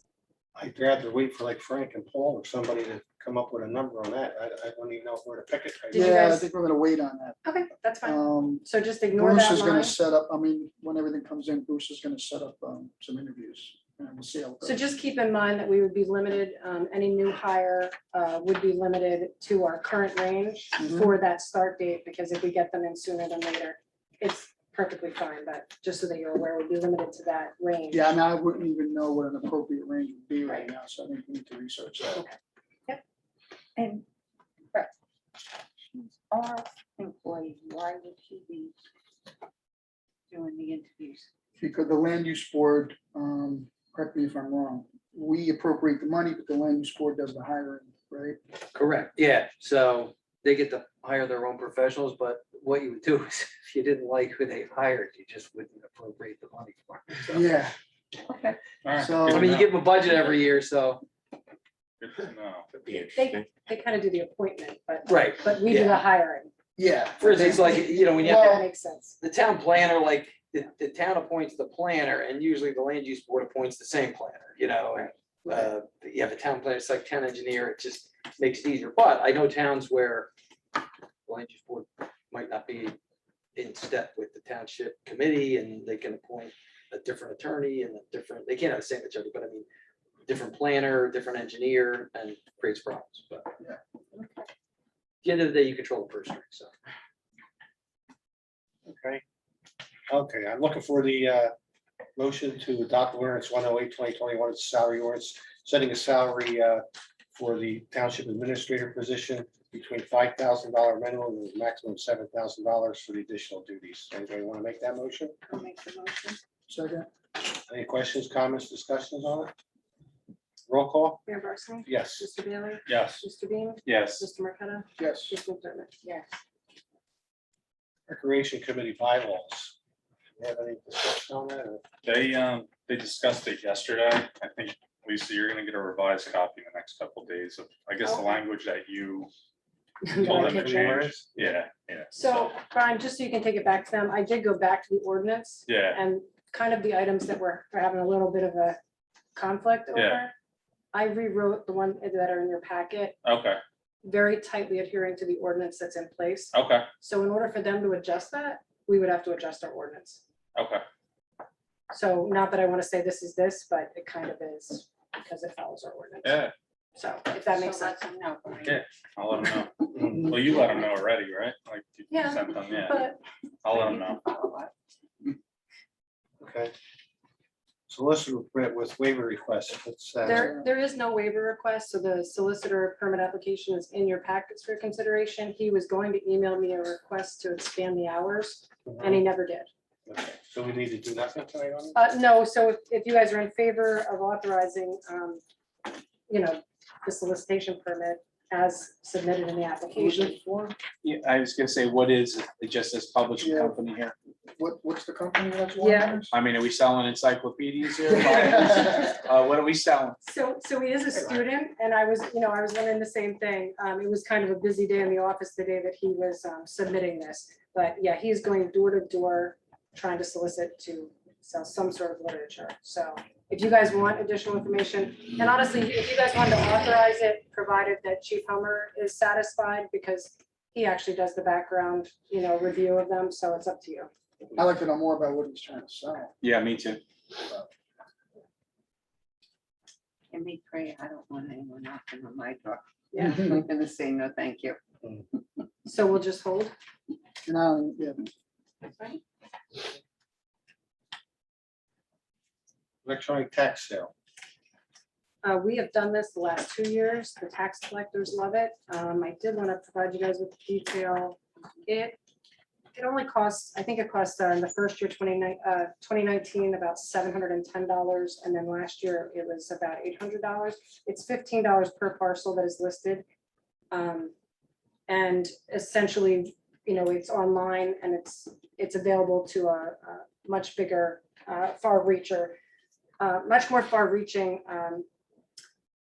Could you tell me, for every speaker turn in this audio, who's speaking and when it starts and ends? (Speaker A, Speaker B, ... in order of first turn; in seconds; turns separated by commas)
Speaker A: 0.6-6.3, Speaker B: 5.9-6.5, Speaker C: 6.0-7.4, Speaker B: 7.5-9.9, Speaker C: 8.0-14.8, Speaker B: 14.6-28.1, Speaker C: 20.8-21.1, Speaker C: 27.9-32.3, Speaker D: 33.8-34.0, Speaker D: 35.9-38.7, Speaker D: 40.3-41.3, Speaker C: 41.6-48.4, Speaker E: 48.7-57.5, Speaker C: 57.3-57.8, Speaker D: 58.3-58.6, Speaker F: 58.8-59.8, Speaker C: 59.0-59.5, Speaker E: 59.3-61.0, Speaker F: 62.0-62.7, Speaker B: 63.1-66.5, Speaker E: 65.1-66.0, Speaker C: 66.8-68.7, Speaker E: 67.2-68.7, Speaker B: 67.8-69.2, Speaker E: 69.2-80.3, Speaker E: 81.3-83.0, Speaker E: 83.6-89.7, Speaker E: 90.3-93.5, Speaker D: 94.2-94.4, Speaker E: 95.2-96.7, Speaker A: 98.8-99.2, Speaker A: 100.1-101.5, Speaker A: 102.2-115.4, Speaker D: 115.5-116.4, Speaker C: 116.7-117.1, Speaker A: 117.7-119.5, Speaker A: 120.7-121.2, Speaker B: 121.3-126.0, Speaker A: 121.9-122.2, Speaker F: 122.9-123.2, Speaker F: 123.9-124.2, Speaker C: 125.0-125.4, Speaker D: 126.0-126.3, Speaker A: 128.1-129.8, Speaker A: 130.4-131.8, Speaker F: 132.1-139.3, Speaker B: 138.0-138.4, Speaker B: 140.1-141.0, Speaker F: 140.1-142.5, Speaker A: 140.2-141.4, Speaker B: 142.1-148.8, Speaker F: 145.7-146.0, Speaker B: 149.3-150.3, Speaker F: 149.9-150.3, Speaker B: 150.9-153.2, Speaker F: 153.2-153.6, Speaker B: 154.0-160.2, Speaker F: 156.5-156.9, Speaker F: 160.6-160.8, Speaker B: 161.9-166.4, Speaker F: 166.2-166.5, Speaker B: 167.0-168.1, Speaker D: 167.5-168.8, Speaker F: 168.6-173.1, Speaker B: 172.1-173.2, Speaker F: 173.6-174.2, Speaker D: 173.8-174.7, Speaker A: 176.4-176.7, Speaker A: 177.9-180.5, Speaker B: 180.2-189.7, Speaker A: 188.9-189.2, Speaker A: 190.1-192.0, Speaker B: 191.9-195.4, Speaker B: 196.3-200.4, Speaker C: 200.0-200.7, Speaker G: 201.0-204.1, Speaker C: 203.4-203.8, Speaker C: 204.6-206.3, Speaker B: 205.8-206.2, Speaker G: 206.3-210.2, Speaker B: 210.2-234.1, Speaker C: 234.6-236.3, Speaker G: 236.4-237.0, Speaker D: 240.3-244.8, Speaker B: 243.1-243.5, Speaker B: 245.9-246.7, Speaker C: 247.5-248.2, Speaker A: 253.1-254.1, Speaker B: 255.4-262.2, Speaker B: 262.9-273.2, Speaker B: 273.9-274.3, Speaker B: 275.1-282.6, Speaker B: 283.2-285.1